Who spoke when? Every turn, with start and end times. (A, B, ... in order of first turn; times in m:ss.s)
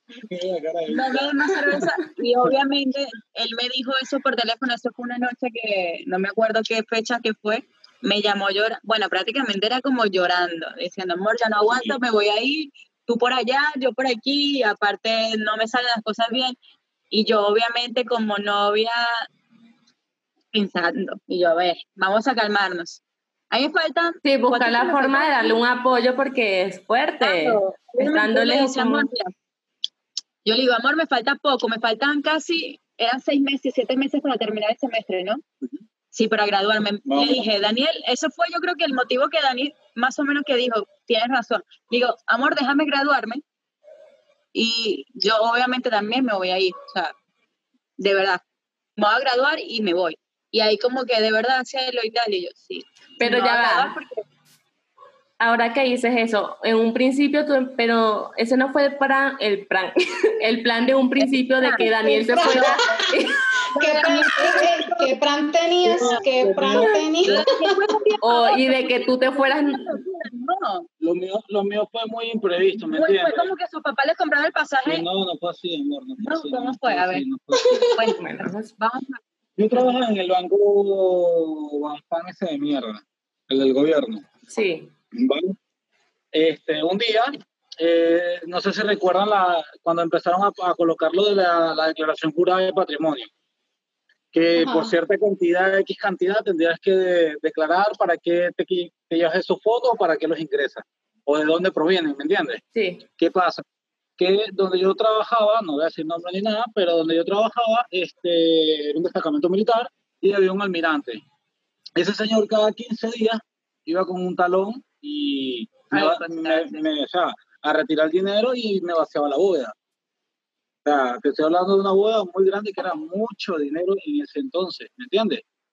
0:00.2-0:01.8 A
0:00.9-0:16.6 B
0:11.7-0:12.0 A
0:17.1-0:19.3 B
0:20.5-0:25.5 B
0:24.2-0:29.1 C
0:27.2-0:29.3 B
0:30.4-0:35.4 B
0:36.1-0:43.4 B
0:37.0-0:37.5 A
0:44.5-0:47.1 B
0:48.0-0:48.4 B
0:49.0-0:54.2 B
0:53.2-0:53.9 C
0:55.4-1:03.4 C
1:01.2-1:02.9 B
1:02.3-1:03.2 D
1:03.7-1:05.1 B
1:03.8-1:07.8 D
1:05.8-1:07.4 A
1:06.0-1:06.2 B
1:06.8-1:10.9 B
1:08.2-1:09.9 C
1:11.0-1:13.5 A
1:12.9-1:15.0 B
1:14.9-1:17.9 A
1:16.2-1:17.2 B
1:17.5-1:18.1 D
1:17.9-1:19.2 B
1:18.1-1:18.7 C
1:19.6-1:24.2 A
1:24.5-1:24.9 C
1:25.1-1:25.5 A
1:26.3-1:33.3 A
1:34.3-1:42.6 A
1:34.6-1:35.0 D
1:42.7-1:43.0 C
1:43.2-1:43.6 A
1:44.2-1:51.2 A
1:52.0-1:59.7 A
1:55.9-1:56.8 B
2:00.8-2:05.4 A